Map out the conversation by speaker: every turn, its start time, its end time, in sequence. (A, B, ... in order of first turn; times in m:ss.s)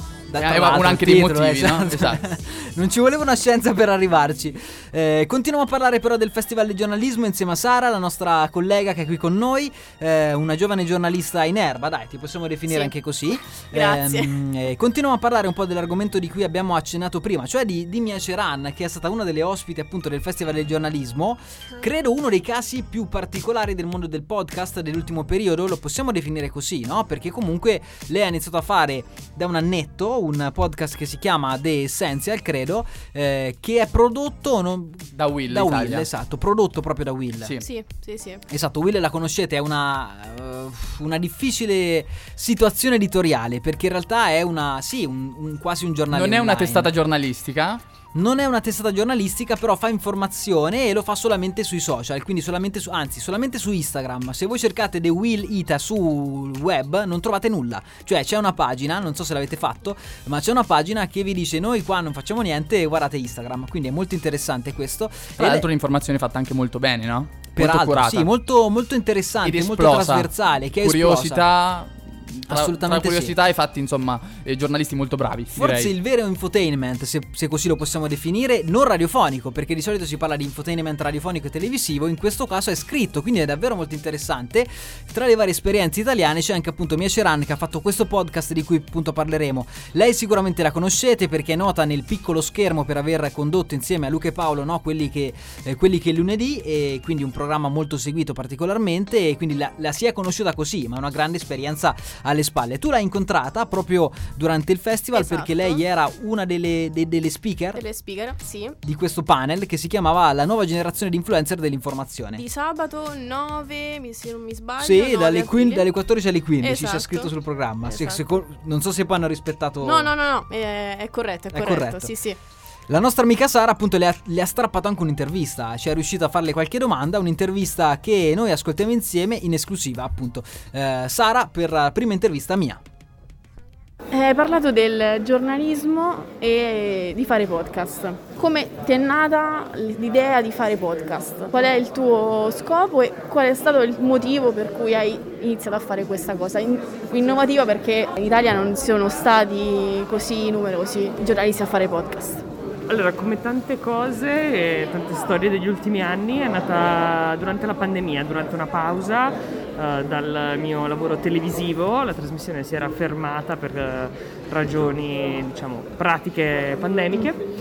0:00.3-0:37.6 A
0:00.4-0:02.2 B
0:13.5-0:14.3 C
0:35.1-0:36.1 B
0:37.6-0:38.4 C
0:38.5-0:46.9 A
0:46.1-0:47.8 B
0:48.1-1:05.6 A
1:05.4-1:08.3 B
1:07.6-1:11.4 A
1:09.4-1:15.9 B
1:12.5-1:13.3 A
1:15.5-1:47.8 A
1:45.1-1:45.8 C
1:47.7-1:48.8 C
1:48.8-1:52.4 A
1:52.3-1:55.8 C
1:54.8-2:00.1 A
1:56.6-1:57.3 C
1:57.9-1:58.4 C
1:59.8-2:02.4 C
2:01.5-2:02.1 A
2:02.9-2:12.8 A
2:14.1-2:32.4 C
2:32.9-2:47.4 D